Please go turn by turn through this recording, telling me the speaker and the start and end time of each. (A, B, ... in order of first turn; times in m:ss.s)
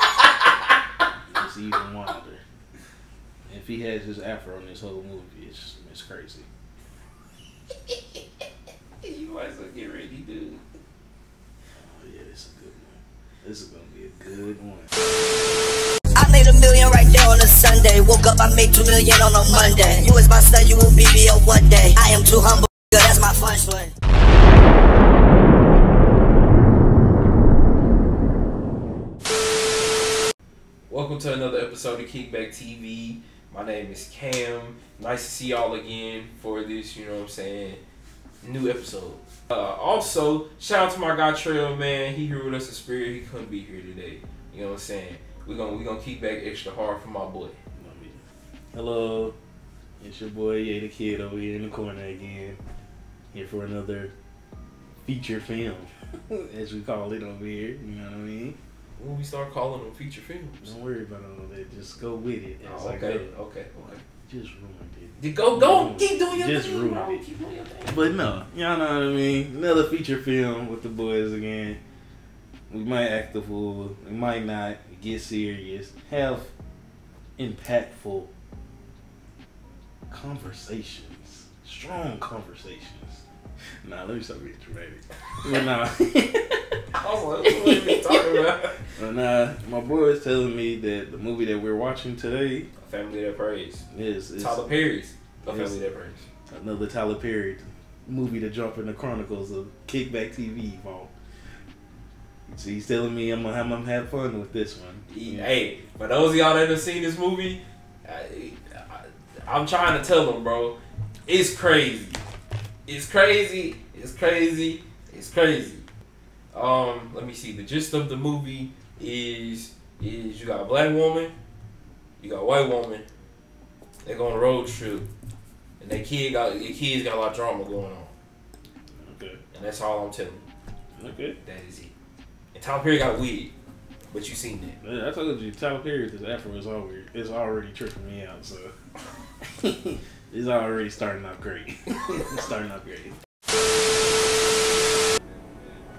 0:01.3-0:02.4 A
0:03.5-0:06.5 A
0:09.0-0:10.6 B
0:11.8-0:14.9 A
0:16.1-0:23.9 C
0:30.9-0:37.8 B
0:38.4-0:47.6 B
0:47.7-0:48.2 A
0:48.7-0:49.4 A
0:50.0-0:52.6 A
0:53.3-0:54.1 A
0:55.0-0:58.6 A
0:59.0-1:00.7 B
1:00.6-1:03.3 A
1:02.6-1:04.0 B
1:04.3-1:07.2 A
1:05.2-1:08.1 B
1:07.9-1:11.8 A
1:12.7-1:16.5 A
1:17.4-1:18.3 A
1:20.1-1:23.2 A
1:23.8-1:26.8 A
1:26.9-1:28.8 B
1:27.4-1:28.4 A
1:29.0-1:32.7 A
1:32.8-1:36.3 B
1:33.9-1:34.7 A
1:35.4-1:35.8 A
1:36.5-1:41.1 A
1:42.5-1:45.5 A
1:45.1-1:52.2 B
1:52.8-1:55.8 B
1:56.5-2:01.3 B
2:02.2-2:03.0 B
2:04.0-2:05.1 B
2:05.8-2:08.1 B
2:09.0-2:09.4 A
2:09.5-2:10.4 B
2:11.0-2:11.4 A
2:11.4-2:11.9 B
2:12.5-2:13.5 B
2:14.1-2:14.8 B
2:14.8-2:18.7 A
2:19.4-2:23.1 A